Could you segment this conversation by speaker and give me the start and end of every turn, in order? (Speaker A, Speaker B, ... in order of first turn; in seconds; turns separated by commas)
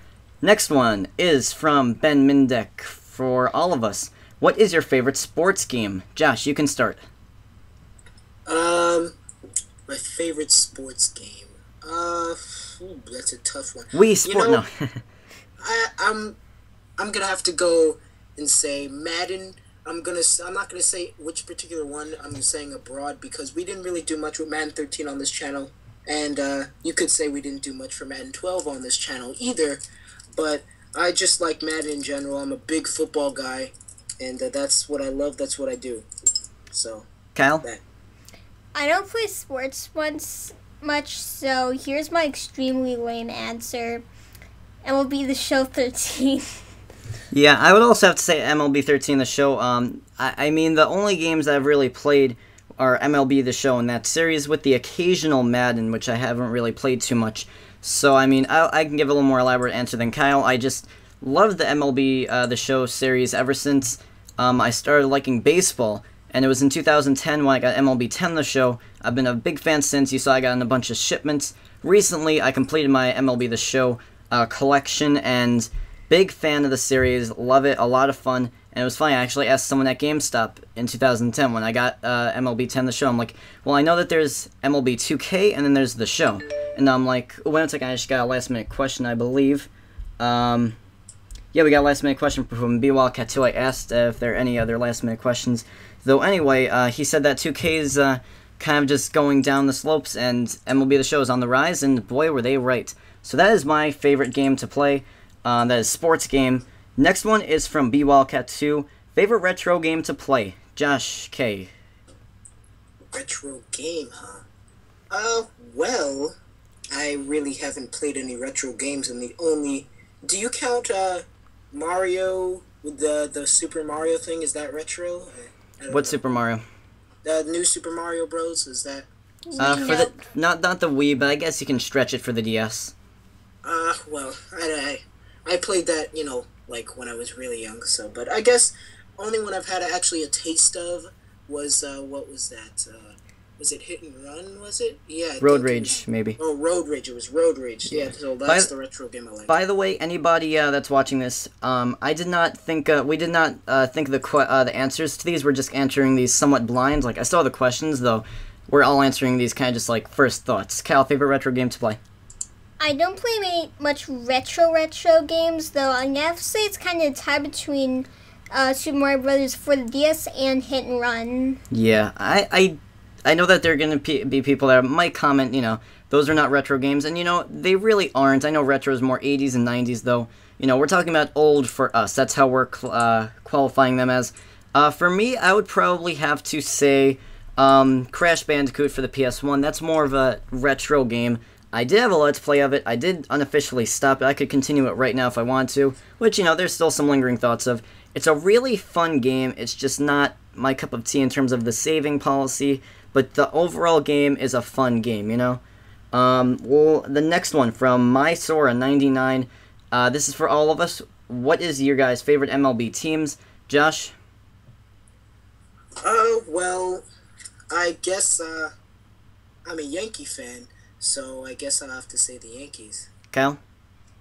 Speaker A: 0.4-7.0, Speaker B: 8.5-9.2, Speaker B: 9.9-14.6, Speaker A: 13.9-15.0, Speaker B: 15.6-16.4, Speaker B: 17.0-29.8, Speaker B: 30.3-36.1, Speaker B: 36.7-37.1, Speaker A: 37.4-37.6, Speaker C: 38.8-44.0, Speaker C: 44.9-46.6, Speaker A: 47.3-90.8, Speaker A: 91.5-111.7, Speaker B: 113.1-114.5, Speaker B: 115.1-116.3, Speaker B: 116.9-126.2, Speaker A: 125.9-126.6, Speaker B: 127.2-129.1, Speaker C: 129.5-130.2, Speaker A: 129.6-132.9, Speaker B: 129.6-130.1, Speaker B: 133.6-149.5, Speaker A: 145.4-146.4, Speaker A: 147.9-148.7, Speaker A: 149.5-162.0, Speaker C: 162.8-171.6, Speaker A: 171.7-205.6, Speaker A: 206.1-214.1, Speaker B: 216.0-217.1, Speaker B: 217.7-218.7, Speaker B: 219.7-223.1, Speaker A: 223.3-223.6